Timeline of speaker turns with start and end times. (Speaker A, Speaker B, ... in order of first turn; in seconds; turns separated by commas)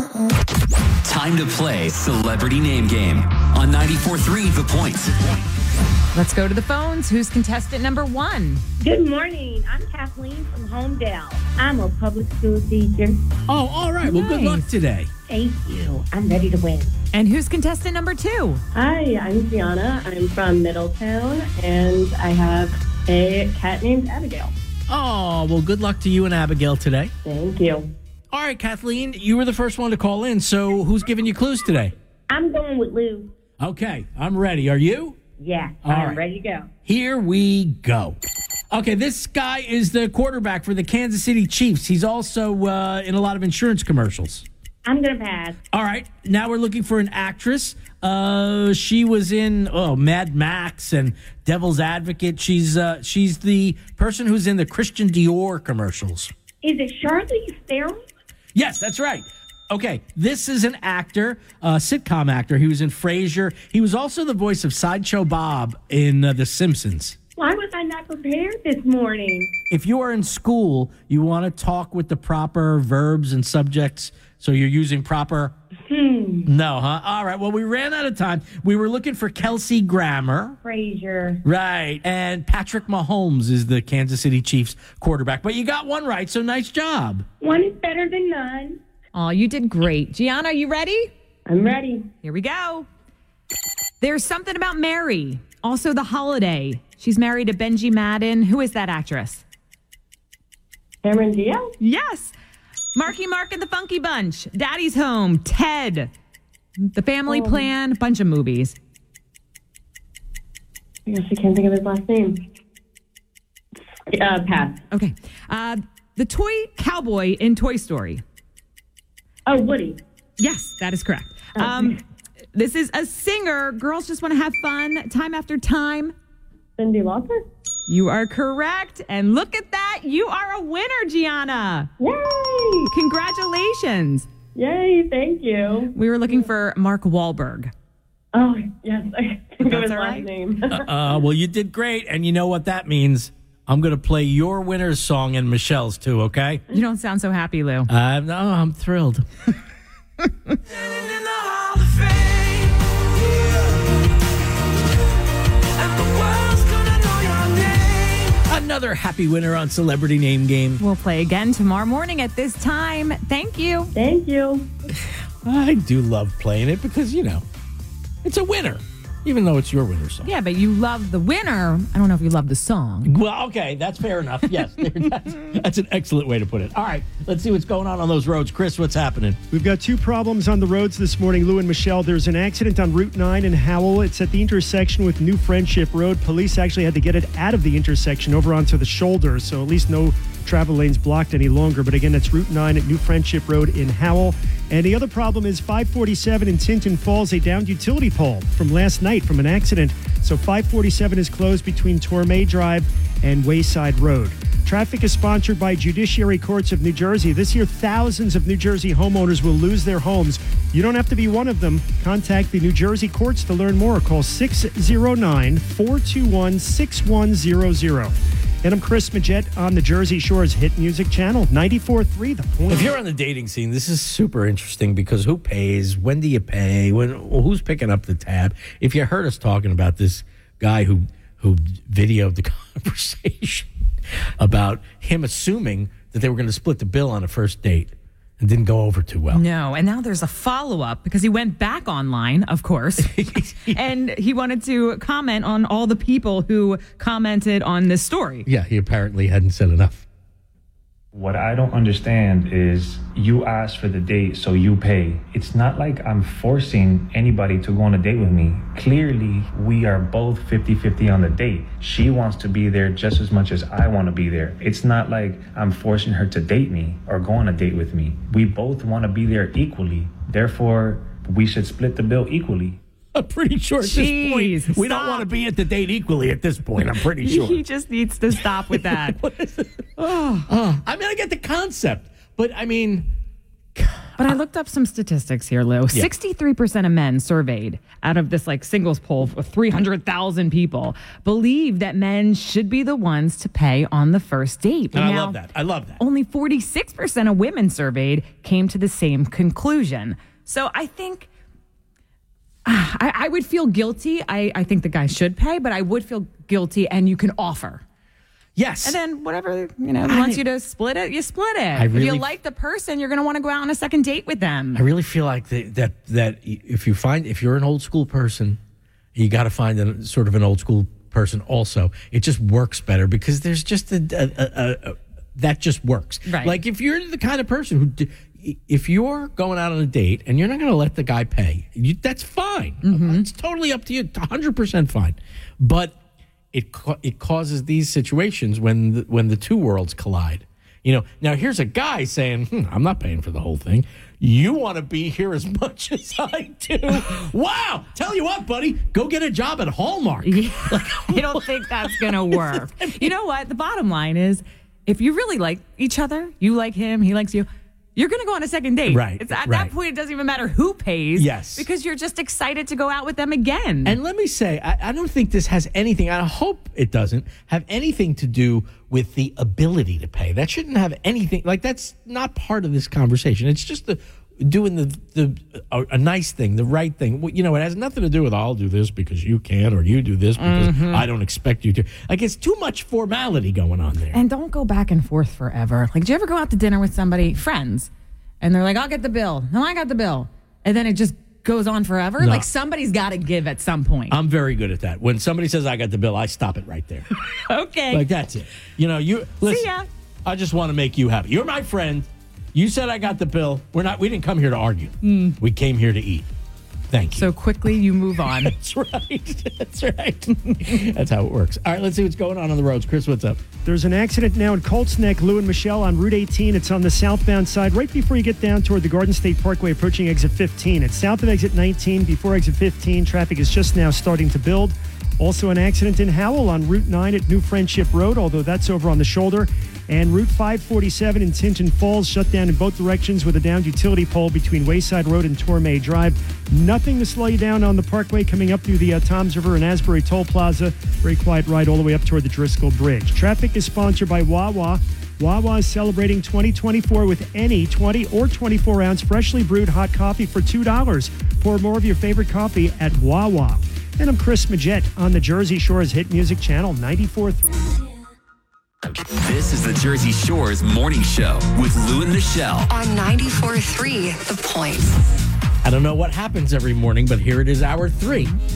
Speaker A: 1.0-5.2, Speaker B: 6.1-8.6, Speaker C: 8.8-13.2, Speaker D: 13.5-15.1, Speaker B: 14.0-14.6, Speaker C: 15.3-16.9, Speaker B: 17.1-18.6, Speaker C: 18.8-24.6, Speaker D: 24.9-27.1, Speaker C: 27.2-27.9, Speaker D: 28.3-31.9, Speaker C: 32.3-33.3, Speaker D: 33.6-35.2, Speaker C: 35.4-36.7, Speaker D: 35.8-36.2, Speaker D: 36.9-38.2, Speaker D: 38.7-44.5, Speaker C: 44.9-45.6, Speaker D: 45.7-56.3, Speaker C: 56.6-58.0, Speaker D: 58.5-67.2, Speaker C: 67.4-69.5, Speaker D: 69.7-75.5, Speaker C: 75.9-76.5, Speaker D: 76.5-80.6, Speaker C: 80.6-81.4, Speaker D: 81.4-87.2, Speaker C: 87.4-88.8, Speaker B: 89.1-91.1, Speaker C: 91.5-92.1, Speaker B: 92.2-92.9, Speaker B: 94.0-99.4, Speaker C: 101.0-101.7, Speaker B: 101.8-102.3, Speaker B: 103.0-106.1, Speaker B: 106.8-108.8, Speaker C: 107.3-107.6, Speaker C: 111.1-112.4, Speaker C: 114.1-114.8, Speaker B: 114.9-118.2, Speaker C: 119.5-120.0, Speaker B: 120.4-122.0, Speaker C: 121.6-121.9, Speaker B: 122.5-126.2, Speaker C: 126.8-127.4, Speaker B: 127.9-131.9, Speaker C: 132.0-132.9, Speaker B: 132.9-134.3, Speaker C: 134.6-135.9, Speaker B: 135.9-137.7, Speaker C: 138.3-140.8, Speaker B: 139.6-140.3, Speaker D: 140.7-146.6, Speaker B: 146.7-147.9, Speaker D: 147.9-149.3, Speaker D: 151.3-151.6, Speaker D: 152.1-152.5, Speaker B: 157.4-157.8, Speaker D: 158.3-160.8, Speaker B: 160.8-163.9, Speaker C: 163.9-164.7, Speaker D: 165.4-167.4, Speaker D: 168.2-170.3, Speaker B: 170.2-173.1, Speaker D: 173.1-179.4, Speaker E: 179.5-222.9, Speaker D: 222.7-233.7, Speaker D: 234.4-239.4, Speaker B: 239.3-248.5, Speaker D: 243.0-243.8, Speaker D: 248.5-250.1, Speaker F: 251.1-272.8, Speaker D: 273.1-277.6, Speaker B: 273.8-275.3, Speaker B: 277.2-279.2, Speaker D: 278.4-283.1, Speaker B: 280.0-280.5, Speaker D: 283.8-284.3, Speaker B: 284.2-295.4, Speaker D: 294.9-296.0, Speaker B: 296.0-301.3, Speaker B: 302.6-307.8, Speaker D: 308.6-309.0, Speaker B: 308.8-314.8, Speaker D: 310.1-310.4, Speaker D: 311.8-312.3, Speaker D: 314.8-318.6, Speaker D: 319.1-336.0, Speaker B: 326.3-326.6, Speaker B: 332.8-333.2, Speaker D: 336.5-353.1, Speaker B: 350.2-364.0, Speaker D: 358.9-359.7, Speaker D: 361.2-361.7, Speaker D: 363.9-384.2, Speaker B: 380.4-381.1, Speaker B: 384.1-387.9, Speaker B: 388.4-394.2, Speaker D: 392.2-392.5, Speaker D: 394.1-397.1, Speaker B: 397.3-398.1, Speaker D: 397.9-399.7, Speaker B: 399.5-399.9, Speaker D: 400.2-406.3, Speaker B: 405.0-405.4, Speaker D: 406.9-407.3, Speaker B: 407.1-408.5, Speaker D: 408.3-413.4, Speaker E: 413.7-457.7, Speaker A: 459.0-462.7, Speaker G: 462.7-465.2, Speaker D: 465.6-468.3